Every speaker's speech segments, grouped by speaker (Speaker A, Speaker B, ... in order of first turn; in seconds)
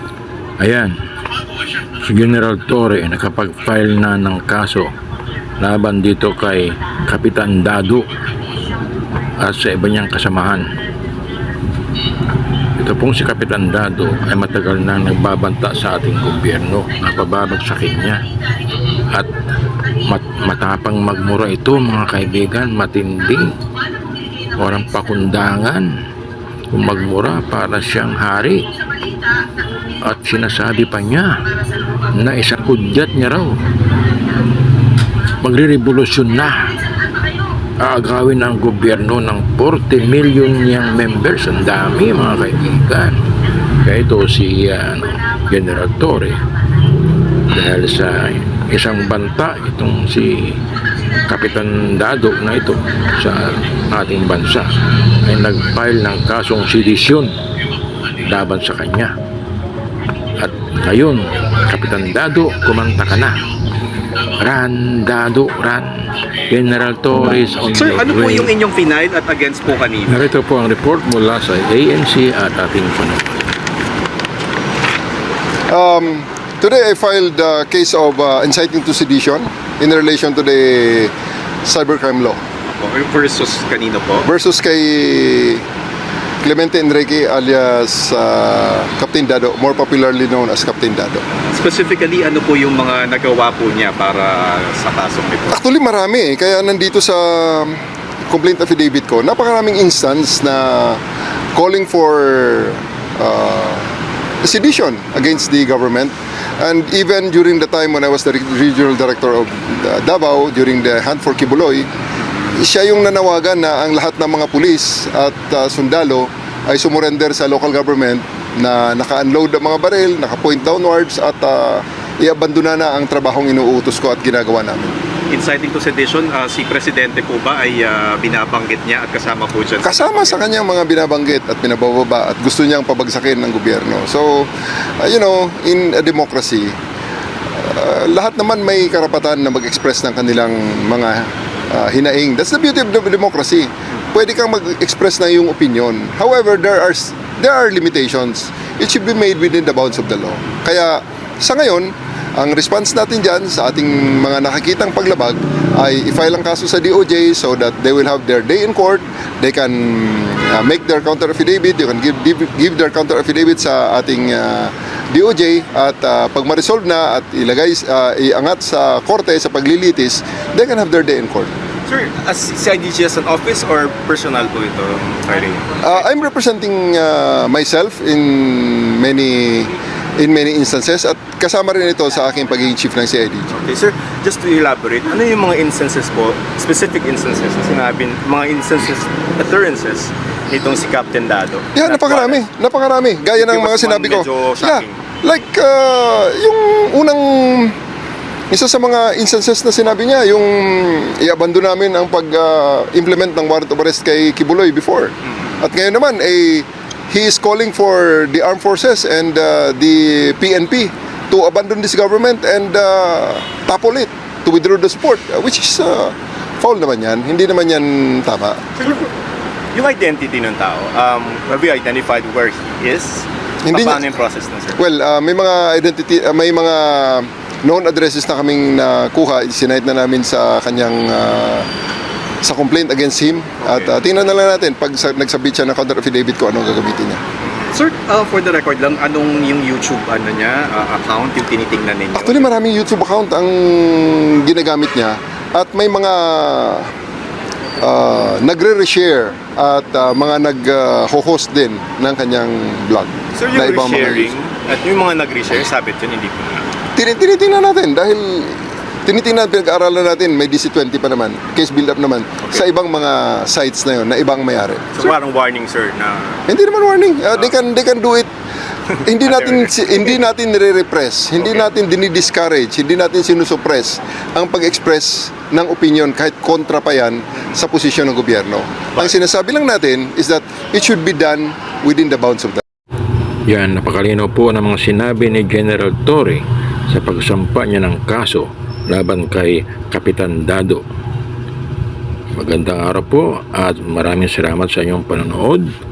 Speaker A: 0.6-0.9, 2.0-4.9, 5.6-8.1, 9.4-10.7, 12.8-18.2, 20.1-23.5, 24.6-25.9, 26.7-28.6, 30.1-31.4, 32.1-33.6, 35.4-36.7, 37.8-43.2, 43.8-46.4, 47.5-50.6, 51.3-54.7, 55.2-57.3, 58.2-59.1, 60.4-63.4, 64.4-65.9, 66.5-68.5, 70.1-73.5, 283.5-290.8, 292.3-295.7
Speaker B: 67.7-70.3, 82.8-84.3, 91.5-95.6, 125.3-130.5, 171.9-176.0, 183.5-192.4, 193.4-195.0, 218.8-219.1, 219.7-224.8, 233.6-233.9, 237.5-242.5, 253.3-256.7, 264.9-266.4, 269.3-270.0
Speaker C: 75.7-81.1, 81.7-82.4, 84.2-85.6, 86.4-91.2, 95.5-101.0, 101.5-103.9, 104.4-111.9, 112.5-125.0, 129.8-134.5, 135.0-136.8, 137.6-171.5, 175.8-183.5, 191.8-197.8, 198.5-218.6, 223.7-224.0, 224.8-231.7, 232.4-237.2, 242.2-246.9, 247.8-254.3, 256.9-264.9, 266.5-268.3, 269.0-282.6